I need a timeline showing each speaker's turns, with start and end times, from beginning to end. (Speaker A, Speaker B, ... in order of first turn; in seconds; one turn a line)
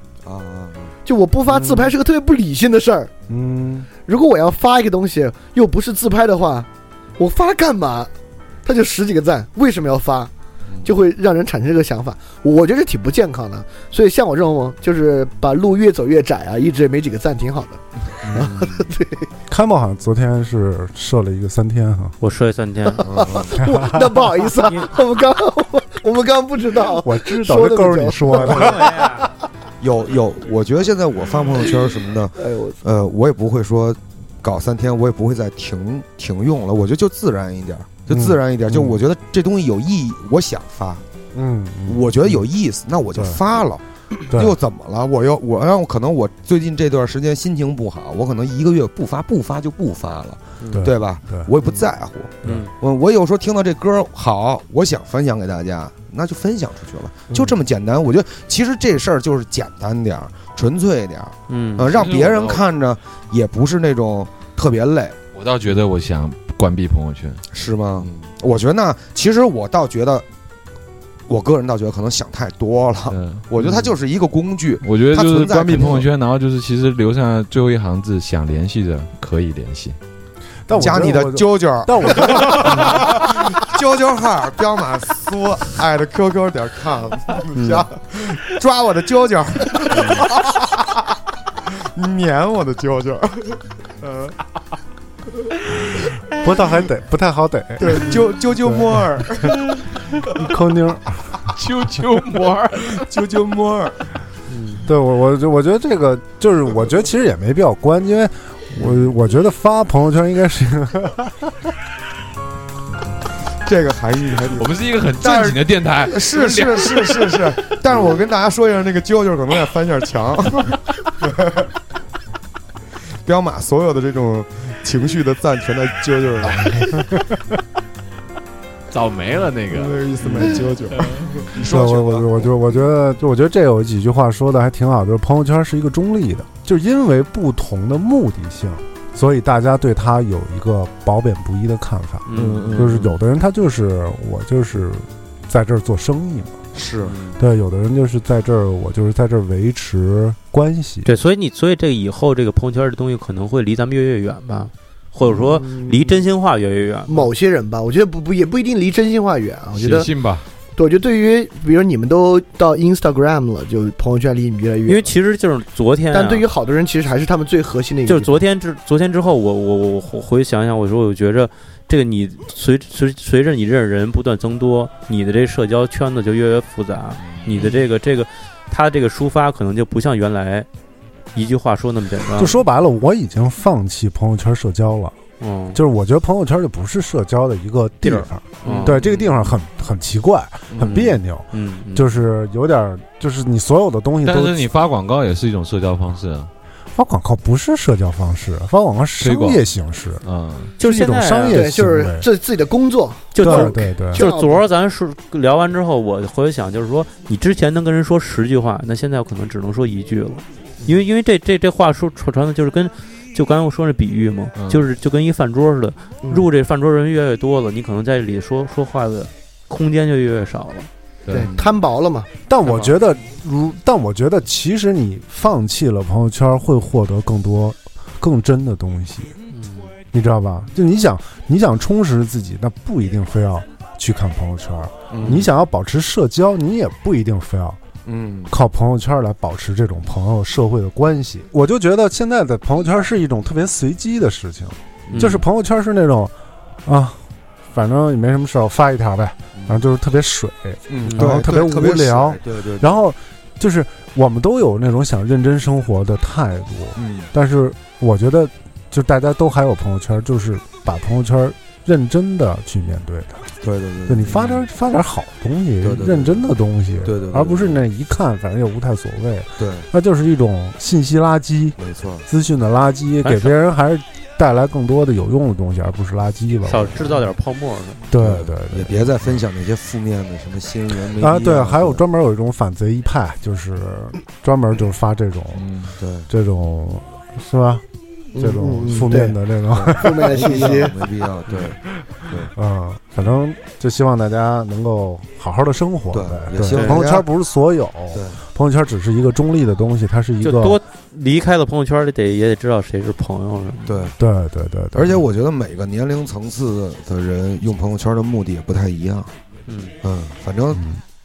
Speaker A: 0.2-0.9
Speaker B: 1.1-3.1
Speaker C: 1.5-1.9
Speaker C: 3.3-3.9
Speaker B: 4.0-8.1
Speaker B: 8.7-10.3
Speaker B: 10.8-19.3
Speaker D: 18.3-18.6
Speaker C: 19.5-22.2
Speaker E: 22.2-23.4
Speaker B: 23.0-28.9
Speaker A: 23.0-23.5
Speaker C: 23.5-24.2
Speaker C: 26.9-28.9
Speaker E: 28.5-29.3
Speaker A: 29.8-41.0
Speaker B: 32.4-32.8
Speaker C: 38.1-39.0
Speaker C: 41.3-42.5
Speaker A: 41.9-65.2
Speaker C: 43.1-43.4
Speaker E: 50.6-50.9
Speaker C: 50.7-51.5
Speaker E: 52.4-52.7
Speaker E: 61.5-61.9
Speaker D: 61.9-62.6
Speaker D: 65.3-67.4
Speaker A: 67.5-70.3
Speaker A: 71.3-76.1
Speaker D: 73.1-73.9
Speaker D: 74.8-80.0
Speaker C: 80.7-83.2
Speaker A: 80.7-90.8
Speaker E: 87.5-87.9
Speaker A: 91.8-94.3
Speaker C: 96.4-99.5
Speaker A: 97.8-99.8
Speaker C: 100.3-101.4
Speaker D: 101.5-103.0
Speaker A: 102.9-104.1
Speaker E: 104.5-104.8
Speaker C: 104.8-111.6
Speaker A: 113.7-121.7
Speaker D: 114.6-117.4
Speaker A: 123.2-127.1
Speaker D: 128.9-131.3
Speaker A: 129.7-132.6
Speaker C: 131.6-146.6
Speaker E: 142.3-142.8
Speaker D: 142.3-143.1
Speaker A: 142.4-143.0
Speaker A: 146.7-147.3
Speaker C: 147.4-151.1
Speaker E: 151.1-157.3
Speaker B: 155.3-156.2
Speaker B: 157.1-160.1
Speaker D: 159.7-160.4
Speaker B: 160.8-165.1
Speaker E: 164.9-166.5
Speaker B: 166.1-168.4
Speaker E: 168.1-180.7
Speaker D: 177.3-177.7
Speaker E: 181.3-182.6
Speaker C: 182.3-185.2
Speaker E: 185.4-185.8
Speaker C: 185.7-194.7
Speaker E: 188.0-189.0
Speaker A: 188.9-189.2
Speaker A: 190.7-191.1
Speaker E: 191.5-192.2
Speaker D: 194.2-196.5
Speaker C: 196.9-200.2
Speaker D: 199.2-199.6
Speaker D: 200.2-200.7
Speaker E: 200.8-201.6
Speaker C: 200.8-202.3
Speaker B: 201.5-204.7
Speaker E: 203.3-220.9
Speaker C: 203.4-204.3
Speaker D: 214.6-214.8
Speaker D: 221.2-221.6
Speaker B: 221.3-222.3
Speaker C: 222.5-229.3
Speaker E: 229.5-229.9
Speaker C: 230.1-237.8
Speaker A: 235.1-235.5
Speaker A: 238.1-238.5
Speaker C: 238.5-246.3
Speaker A: 245.1-245.4
Speaker E: 245.1-245.4
Speaker C: 246.8-263.5
Speaker A: 249.6-249.8
Speaker A: 250.9-253.0
Speaker E: 251.0-251.4
Speaker A: 257.0-257.3
Speaker A: 263.6-264.5
Speaker C: 264.1-277.1
Speaker D: 264.3-264.6
Speaker A: 265.8-266.5
Speaker A: 267.0-267.8
Speaker A: 269.6-269.9
Speaker A: 271.8-272.2
Speaker E: 273.2-273.6
Speaker E: 276.7-278.0
Speaker C: 278.1-279.4
Speaker A: 278.1-282.0
Speaker C: 281.1-285.7
Speaker D: 285.5-285.9
Speaker A: 286.0-286.3
Speaker C: 286.3-287.9
Speaker B: 288.4-289.4
Speaker C: 288.4-290.5
Speaker A: 289.7-292.5
Speaker B: 289.9-291.0
Speaker C: 292.6-300.8
Speaker A: 296.1-297.3
Speaker E: 296.7-297.0
Speaker A: 298.1-298.4
Speaker E: 300.4-304.1
Speaker A: 303.9-304.2
Speaker C: 304.2-305.2
Speaker A: 304.9-309.3
Speaker E: 309.7-309.9
Speaker A: 310.0-310.8
Speaker C: 310.7-311.0